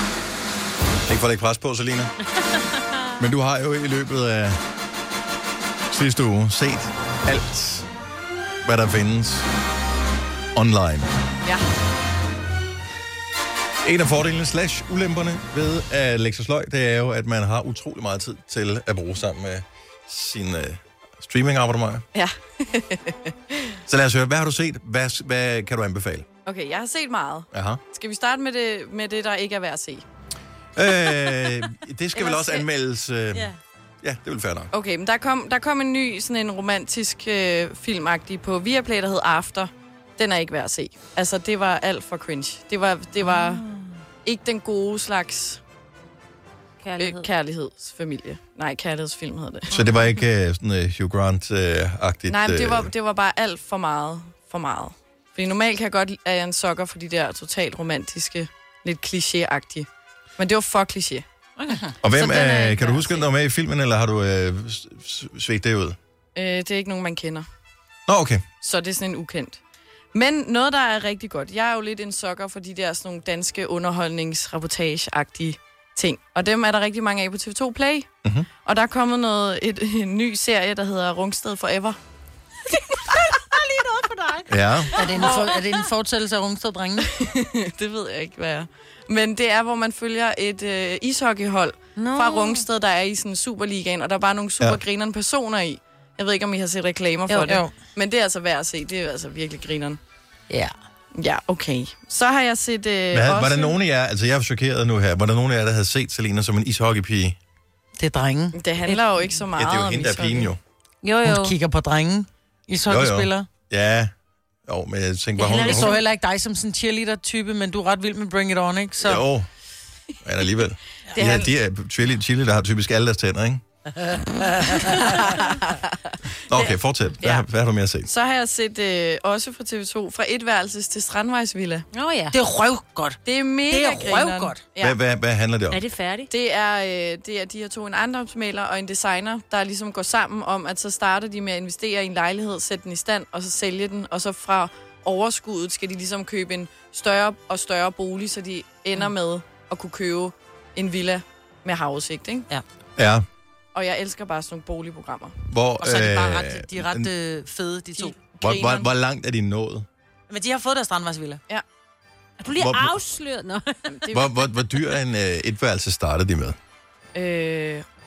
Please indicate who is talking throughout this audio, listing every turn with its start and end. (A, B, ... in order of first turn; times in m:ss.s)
0:01.1-0:02.1 A
0:03.2-0:04.6 A
0:05.9-0:07.9 A
0:08.6-0:09.4 A
0:10.5-0:11.1 A
0:13.8-0:22.0 A
0:22.1-0:23.3 B
0:23.9-0:26.2 A
0:26.4-0:30.0 B
0:27.5-0:27.8 A
0:30.8-0:34.7 A
0:32.2-0:32.7 B
0:34.7-0:43.6 B
0:43.2-0:44.0 C
0:44.3-0:45.6 B
0:46.8-0:47.3 C
0:47.0-0:49.8 B
0:49.7-0:52.9 A
0:52.3-0:59.9 B
1:00.4-1:01.2 B
1:01.6-1:03.2 C
1:01.7-1:01.9 D
1:02.0-1:06.0 A
1:06.4-1:07.4 B
1:08.1-1:08.4 A
1:08.6-1:09.6 B
1:10.1-1:18.1 B
1:18.6-1:22.0 B
1:23.3-1:25.4 C
1:24.5-1:25.0 A
1:24.9-1:27.1 D
1:27.2-1:40.0 B
1:32.0-1:32.6 D
1:32.2-1:32.6 C
1:37.3-1:37.6 C
1:37.3-1:37.7 D
1:41.2-1:43.7 B
1:43.1-1:47.4 A
1:48.0-1:48.6 D
1:48.6-1:49.6 C
1:48.6-1:50.5 B
1:49.6-1:50.6 A
1:51.0-1:51.6 C
1:51.2-1:53.5 D
1:52.8-1:54.1 A
1:54.6-1:56.0 A
1:55.4-1:56.0 C
1:55.6-1:59.2 D
1:59.0-1:59.5 A
2:00.2-2:03.6 A
2:01.1-2:01.5 B
2:04.0-2:05.6 D
2:06.5-2:08.1 A
2:08.1-2:11.8 B
2:11.9-2:12.4 C
2:12.3-2:14.6 D
2:13.2-2:14.9 B
2:14.8-2:15.8 A
2:15.7-2:16.3 C
2:16.3-2:32.4 B
2:33.0-2:33.2 A
2:33.7-2:35.4 B
2:35.5-2:37.1 A
2:35.8-2:38.2 D
2:38.0-2:38.9 B
2:38.4-2:39.8 A
2:40.3-2:41.4 D
2:42.4-2:44.2 C
2:42.5-2:43.0 A
2:43.9-2:44.4 B
2:44.1-2:46.6 A
2:47.1-2:47.8 B